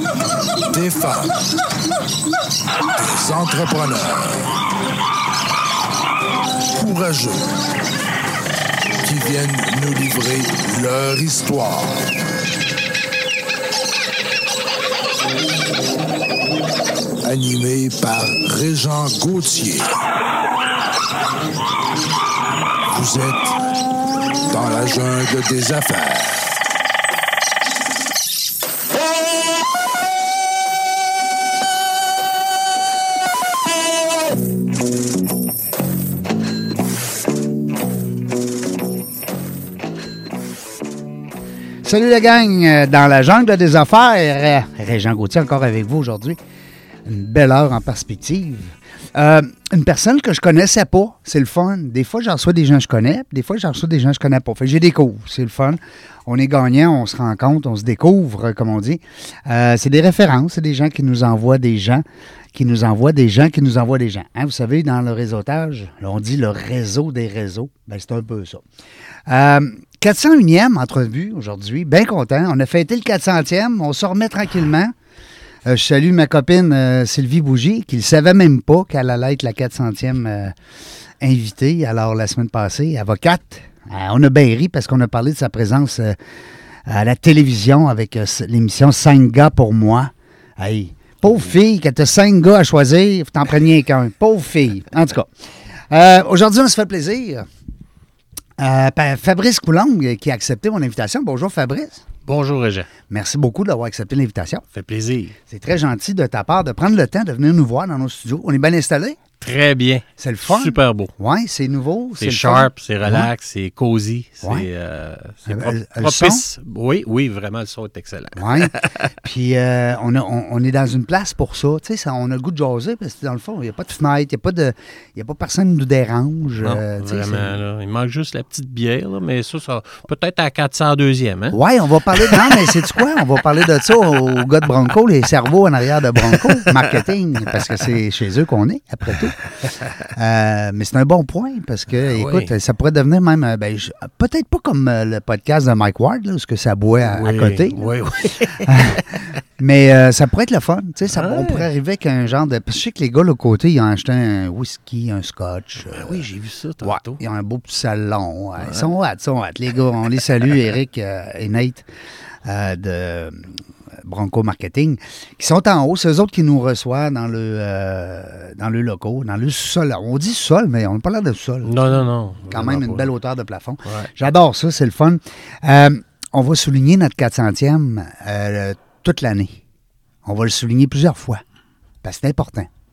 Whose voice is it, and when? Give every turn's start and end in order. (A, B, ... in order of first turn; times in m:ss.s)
0:00.7-0:01.4 A
0:03.0-0:04.5 A
0:06.8-0:07.5 A
0:09.0-0:12.1 A
0:17.2-0:19.9 A
0:22.9-0:23.6 A
0:24.5-0:26.6 A
0:41.8-0:46.4 B
0:47.0-1:08.6 B
1:09.3-1:14.9 B
1:15.6-1:20.6 B
1:21.2-1:26.2 B
1:26.8-1:35.3 B
1:35.9-1:37.5 B
1:38.6-1:42.0 B
1:42.2-1:42.9 C
1:43.1-1:44.6 B
1:44.7-1:45.4 C
1:45.5-1:49.2 B
1:49.4-1:51.1 C
1:50.2-1:53.3 B
1:52.2-1:59.1 C
1:55.4-1:56.4 B
1:58.4-2:07.6 B
2:06.6-2:11.6 C
2:11.5-2:19.4 B
2:12.1-2:12.8 C
2:16.3-2:17.0 C
2:17.5-2:17.8 C
2:19.6-2:20.0 C
2:20.1-2:27.9 B
2:22.0-2:22.5 C
2:27.0-2:29.3 C
2:28.5-2:36.2 B
2:31.1-2:31.7 C
2:35.8-2:37.2 C
2:36.8-2:41.9 B
2:42.4-2:59.6 B
2:51.6-2:53.1 C
2:53.8-2:54.1 C
3:00.2-3:01.4 B
3:02.0-3:02.7 B